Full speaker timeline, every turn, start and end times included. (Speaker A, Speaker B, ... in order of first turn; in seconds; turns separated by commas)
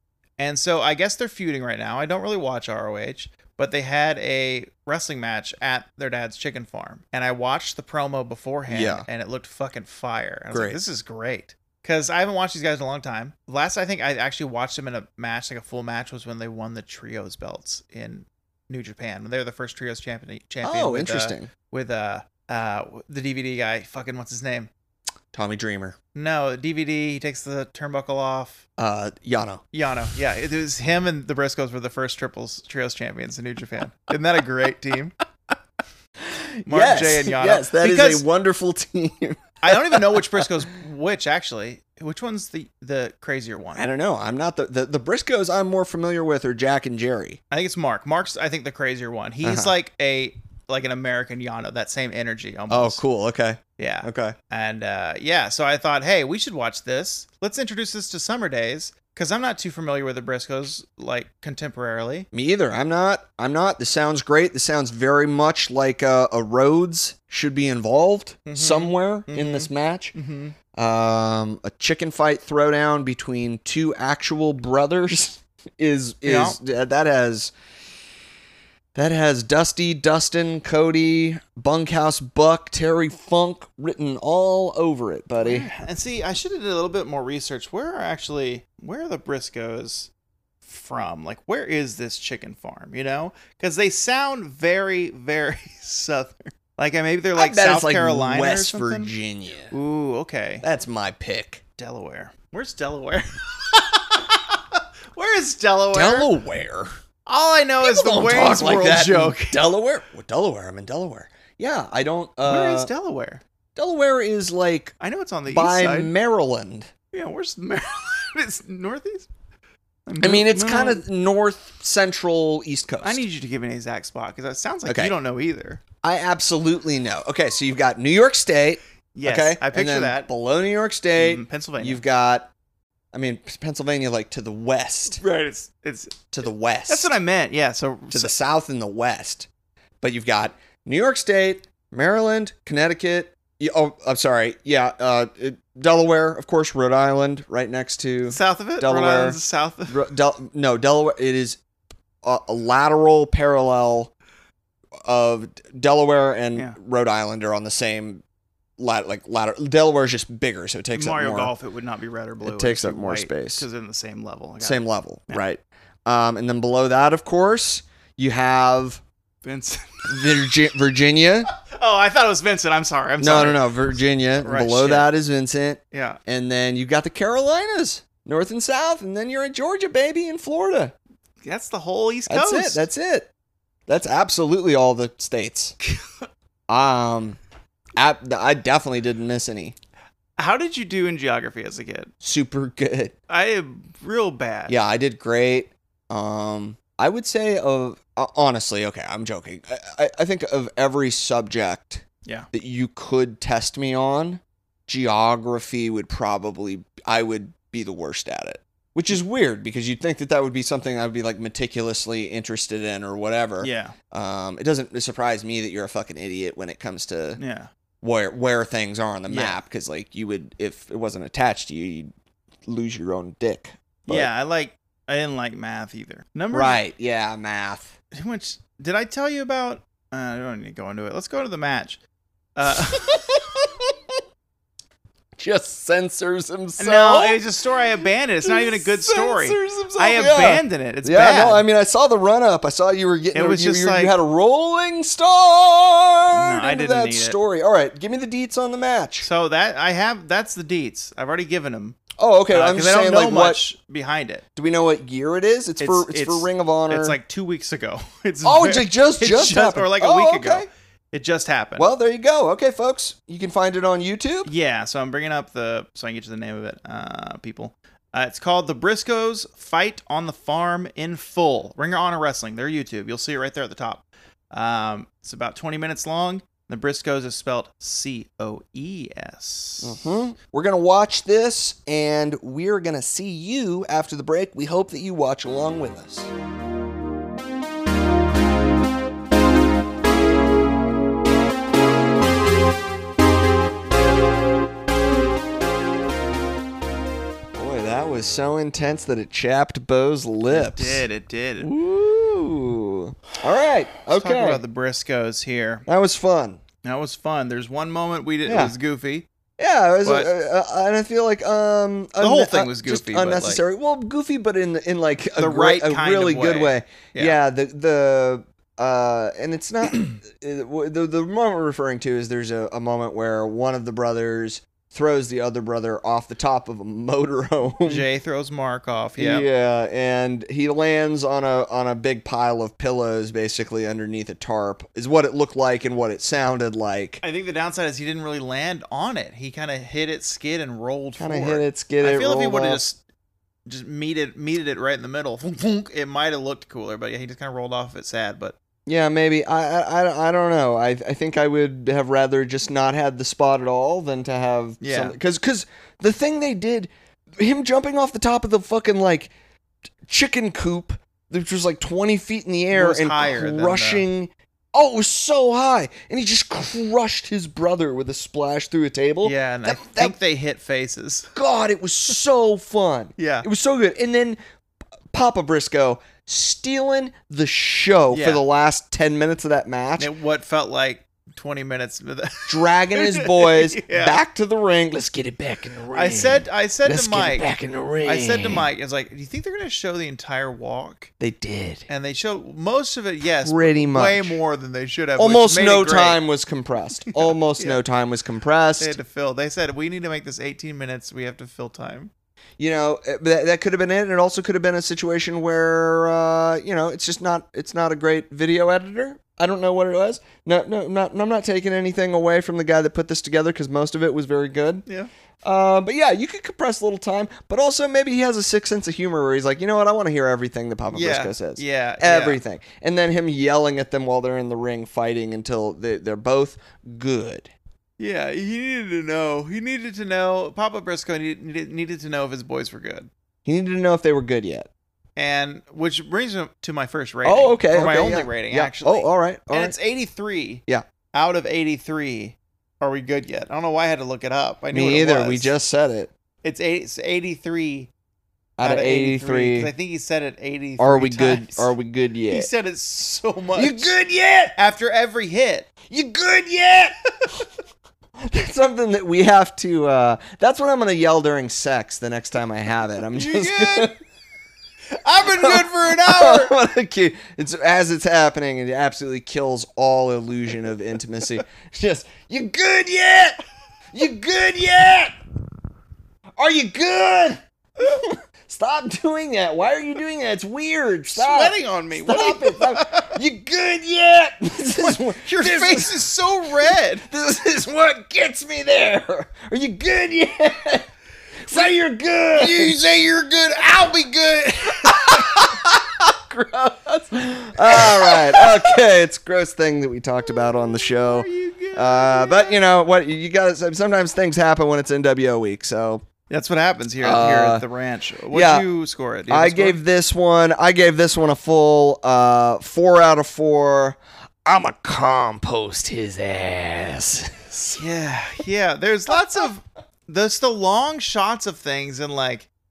Speaker A: 0.4-24.7, Speaker B: 8.7-9.1, Speaker B: 10.5-10.8, Speaker B: 20.6-21.5, Speaker B: 25.3-26.0, Speaker A: 26.1-28.6, Speaker B: 28.8-29.6, Speaker A: 29.7-35.2, Speaker B: 36.2-40.4, Speaker A: 36.6-38.2, Speaker A: 39.6-43.8, Speaker B: 43.8-47.4, Speaker A: 47.5-53.0, Speaker B: 49.4-49.7, Speaker B: 52.7-54.4, Speaker A: 53.8-62.3, Speaker B: 62.3-70.1, Speaker A: 68.5-70.5, Speaker B: 70.7-77.5, Speaker A: 76.2-76.6, Speaker B: 78.9-85.7, Speaker A: 85.4-90.1, Speaker A: 90.6-99.1, Speaker B: 97.4-99.7, Speaker A: 99.7-100.6, Speaker B: 100.6-101.6, Speaker A: 101.8-106.3, Speaker B: 105.9-107.0, Speaker A: 107.3-109.6, Speaker B: 107.8-112.9, Speaker A: 112.4-113.4, Speaker B: 113.8-114.9, Speaker A: 115.0-116.1, Speaker B: 115.5-116.9, Speaker A: 117.1-119.3, Speaker A: 120.0-121.0, Speaker B: 120.2-123.2, Speaker A: 123.0-125.8, Speaker B: 124.9-125.1, Speaker B: 126.0-132.5, Speaker A: 129.1-130.3, Speaker A: 131.2-132.0, Speaker B: 133.1-135.2, Speaker A: 135.2-136.3, Speaker B: 136.3-137.1, Speaker A: 136.9-138.3, Speaker B: 138.1-139.5, Speaker B: 140.0-151.6, Speaker A: 148.3-150.1, Speaker B: 152.2-154.1, Speaker B: 155.0-158.2, Speaker B: 158.8-161.5, Speaker A: 160.9-165.4, Speaker B: 162.4-163.6, Speaker B: 164.6-169.0, Speaker A: 169.4-170.4, Speaker B: 170.1-171.5, Speaker A: 171.6-175.1, Speaker B: 173.2-180.9, Speaker A: 175.9-176.2, Speaker A: 181.4-182.9, Speaker B: 182.3-183.3, Speaker B: 183.9-185.8, Speaker B: 186.7-187.4, Speaker B: 187.9-189.8, Speaker A: 190.4-192.1, Speaker B: 192.2-193.1, Speaker A: 193.3-194.8, Speaker B: 194.7-217.4, Speaker A: 213.6-213.9, Speaker A: 217.4-217.7, Speaker B: 218.0-222.1, Speaker A: 219.3-219.6, Speaker B: 222.7-224.3, Speaker A: 224.1-226.8, Speaker B: 226.5-227.9, Speaker A: 228.1-232.0, Speaker A: 232.6-233.3, Speaker B: 232.9-233.9, Speaker B: 235.4-237.4, Speaker A: 236.8-241.6, Speaker B: 238.0-249.3, Speaker A: 243.3-244.2, Speaker A: 246.3-247.4, Speaker A: 249.2-252.0, Speaker B: 252.2-253.6, Speaker A: 252.5-254.4, Speaker B: 254.6-257.2, Speaker A: 255.8-261.9, Speaker B: 258.4-260.7, Speaker B: 261.8-264.5, Speaker A: 264.4-280.2, Speaker B: 279.8-286.3, Speaker B: 297.5-301.1, Speaker A: 300.5-301.7, Speaker B: 301.6-304.6, Speaker A: 304.1-305.9, Speaker B: 305.9-306.6, Speaker A: 306.8-309.3, Speaker B: 308.4-308.7, Speaker B: 309.6-328.1, Speaker A: 310.0-310.3, Speaker A: 312.2-313.6, Speaker A: 315.3-317.4, Speaker A: 327.8-329.5, Speaker B: 329.2-337.2, Speaker A: 337.2-343.0, Speaker B: 341.2-342.8, Speaker A: 343.6-348.6, Speaker B: 348.9-359.3, Speaker A: 354.8-355.1, Speaker B: 360.1-370.2, Speaker A: 362.7-364.1, Speaker A: 369.2-371.3, Speaker B: 371.3-374.4, Speaker A: 373.2-373.5, Speaker B: 375.1-380.1, Speaker A: 378.1-378.4, Speaker A: 380.0-384.2, Speaker B: 382.5-388.7, Speaker A: 385.9-387.5, Speaker A: 388.0-391.1, Speaker B: 391.2-391.9, Speaker A: 391.9-396.2, Speaker B: 393.4-394.4, Speaker B: 395.2-398.9, Speaker A: 397.1-397.8, Speaker A: 398.8-402.1, Speaker B: 402.6-414.8, Speaker B: 415.4-427.5, Speaker A: 420.9-422.4, Speaker A: 428.0-433.1, Speaker B: 433.4-434.7, Speaker A: 435.2-445.5, Speaker B: 437.2-439.7, Speaker B: 444.7-446.1, Speaker A: 446.4-447.9, Speaker B: 448.6-449.7, Speaker A: 448.6-451.7, Speaker B: 450.8-452.5, Speaker A: 452.3-453.9, Speaker B: 453.6-454.6, Speaker A: 454.6-455.7, Speaker B: 455.9-457.4, Speaker B: 458.2-463.9, Speaker A: 463.1-463.9, Speaker A: 464.9-466.5, Speaker B: 465.2-473.4, Speaker B: 473.9-475.1, Speaker B: 476.4-486.1, Speaker A: 481.1-483.2, Speaker A: 484.8-487.1, Speaker B: 486.7-490.9, Speaker B: 491.4-506.1, Speaker A: 492.3-495.6, Speaker A: 497.6-498.6, Speaker A: 500.9-502.6, Speaker A: 506.3-509.8, Speaker B: 507.0-507.6, Speaker B: 508.3-508.7, Speaker B: 509.3-517.8, Speaker A: 517.7-522.5, Speaker B: 519.1-519.5